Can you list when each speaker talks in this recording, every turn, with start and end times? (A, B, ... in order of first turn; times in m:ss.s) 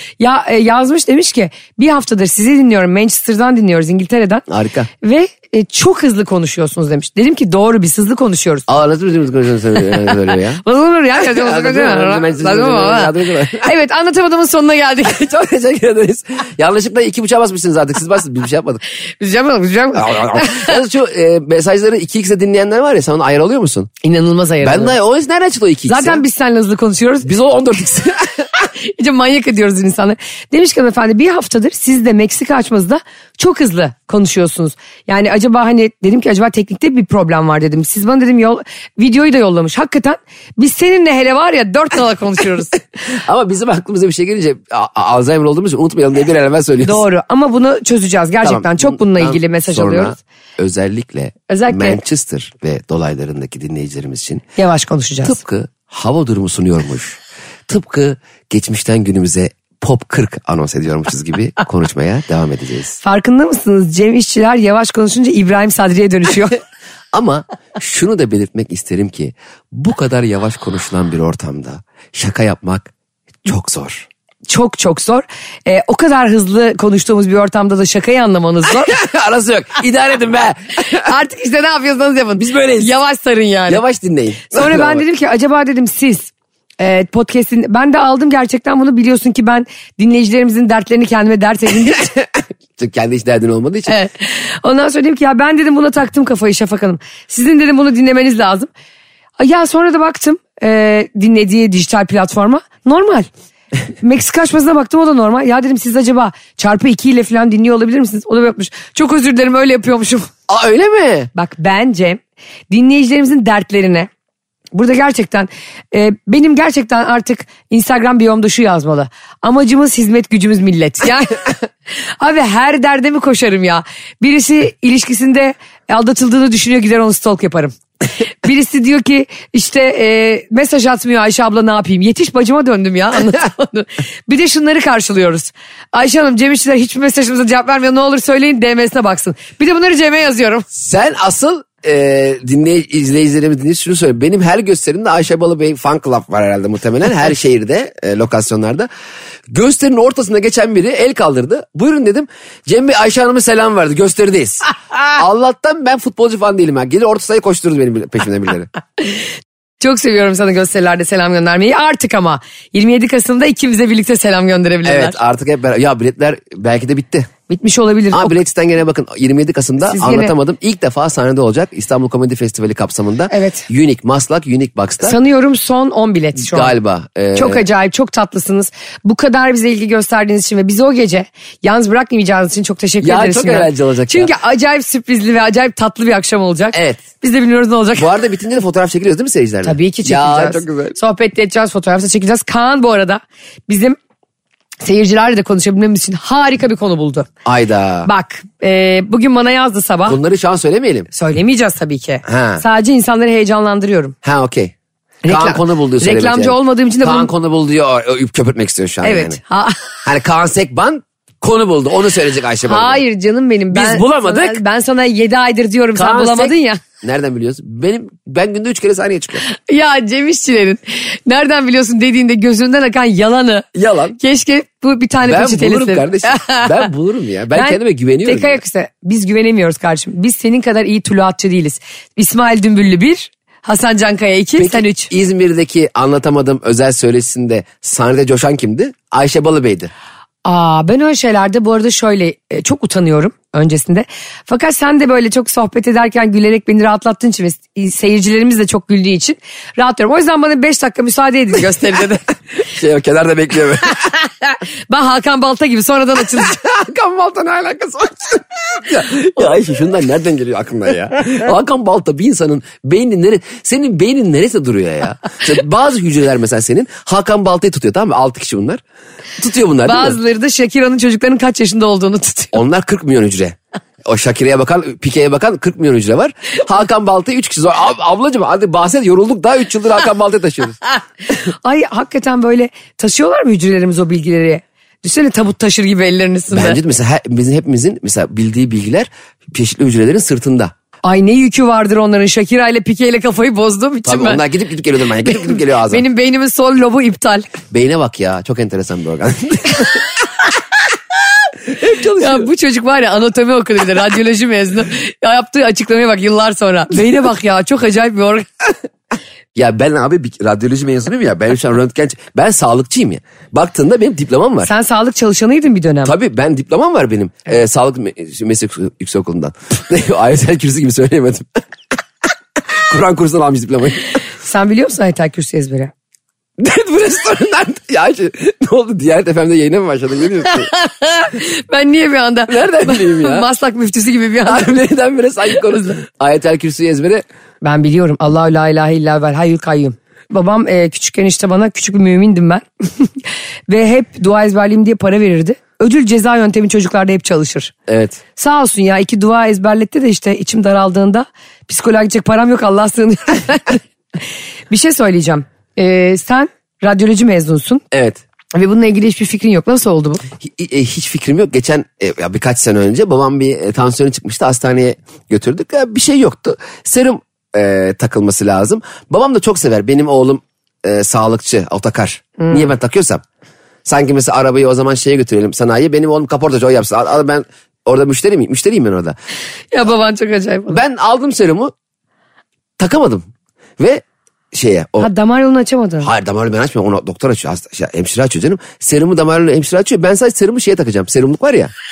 0:00.2-0:04.4 A
0:04.5-0:04.9 B
0:05.0-0:08.7 A
0:08.7-0:10.6 B
0:10.6-0:15.2 A
0:11.2-0:13.7 B
0:15.0-0:18.8 B
0:19.2-0:20.8 A
0:19.9-0:23.9 B
0:24.0-0:25.0 A
0:24.6-0:26.2 B
0:25.9-0:27.3 A
0:27.2-0:28.5 B
0:28.8-0:42.8 A
0:43.1-0:47.0 B
0:46.8-0:50.2 A
0:48.4-0:54.4 B
0:51.5-0:52.0 A
0:54.6-0:55.4 A
0:55.2-1:03.0 B
1:03.0-1:06.6 A
1:07.1-1:12.9 B
1:13.4-1:14.1 B
1:14.5-1:19.0 A
1:18.8-1:21.1 B
1:20.9-1:23.8 A
1:22.4-1:22.9 B
1:23.7-1:25.0 B
1:24.5-1:32.1 A
1:32.8-1:33.9 B
1:33.9-1:38.7 A
1:39.4-1:43.3 A
1:44.0-1:50.3 A
1:50.5-1:51.3 B
1:51.3-1:54.1 A
1:54.7-2:01.5 A
2:02.2-2:07.7 A
2:08.4-2:20.6 A
2:20.7-2:28.9 B
2:29.5-2:38.7 B
2:39.8-2:45.2 A
2:44.8-2:47.3 B
2:47.5-2:48.4 A
2:48.1-2:55.2 B
2:49.8-2:50.3 A
2:53.3-2:53.7 A
2:55.0-2:56.7 A
2:56.4-2:57.6 B
2:57.3-3:08.1 A
3:03.0-3:04.3 B
3:06.7-3:07.0 B
3:08.0-3:11.0 B
3:09.6-3:14.0 A
3:14.8-3:17.3 A
3:17.4-3:18.1 B
3:18.0-3:20.2 A
3:20.1-3:21.1 B
3:21.1-3:24.1 A
3:22.2-3:22.6 B
3:24.2-3:24.7 B
3:25.2-3:27.3 A
3:25.3-3:29.4 B
3:29.0-3:29.9 A
3:30.0-3:33.0 B
3:32.6-3:36.8 A
3:33.7-3:34.6 B
3:35.9-3:39.4 B
3:39.4-3:43.7 A
3:43.7-3:44.2 B
3:44.2-3:46.8 A
3:45.2-3:48.6 B
3:47.5-3:55.1 A
3:54.6-3:59.9 B
4:00.4-4:12.2 A
4:12.6-4:14.1 B
4:14.2-4:16.6 A
4:16.4-4:28.8 B
4:29.4-4:30.2 B
4:29.8-4:32.6 A
4:32.5-4:40.8 B
4:41.5-4:46.8 A
4:46.5-4:50.7 B
4:51.0-4:54.4 A
4:54.0-4:56.0 B
4:55.6-4:57.5 A
4:57.7-5:00.0 B
5:01.6-5:02.5 B
5:02.2-5:08.6 A
5:09.5-5:14.7 B
5:14.6-5:16.1 A
5:16.0-5:21.6 B
5:22.8-5:24.2 B
5:24.4-5:25.9 A
5:26.6-5:30.7 B
5:30.6-5:34.7 A
5:32.5-5:33.5 B
5:34.4-5:37.2 B
5:35.7-5:35.9 A
5:37.6-5:47.7 A
5:47.9-5:48.2 B
5:48.4-5:53.8 A
5:54.7-5:57.8 A
5:57.9-5:58.2 B
5:58.5-6:00.2 A
6:00.4-6:13.2 B
6:12.4-6:12.7 A
6:13.8-6:19.2 B
6:19.7-6:20.8 A
6:20.7-6:21.7 B
6:22.8-6:23.2 B
6:23.8-6:25.1 B
6:25.0-6:26.1 A
6:26.0-6:31.7 B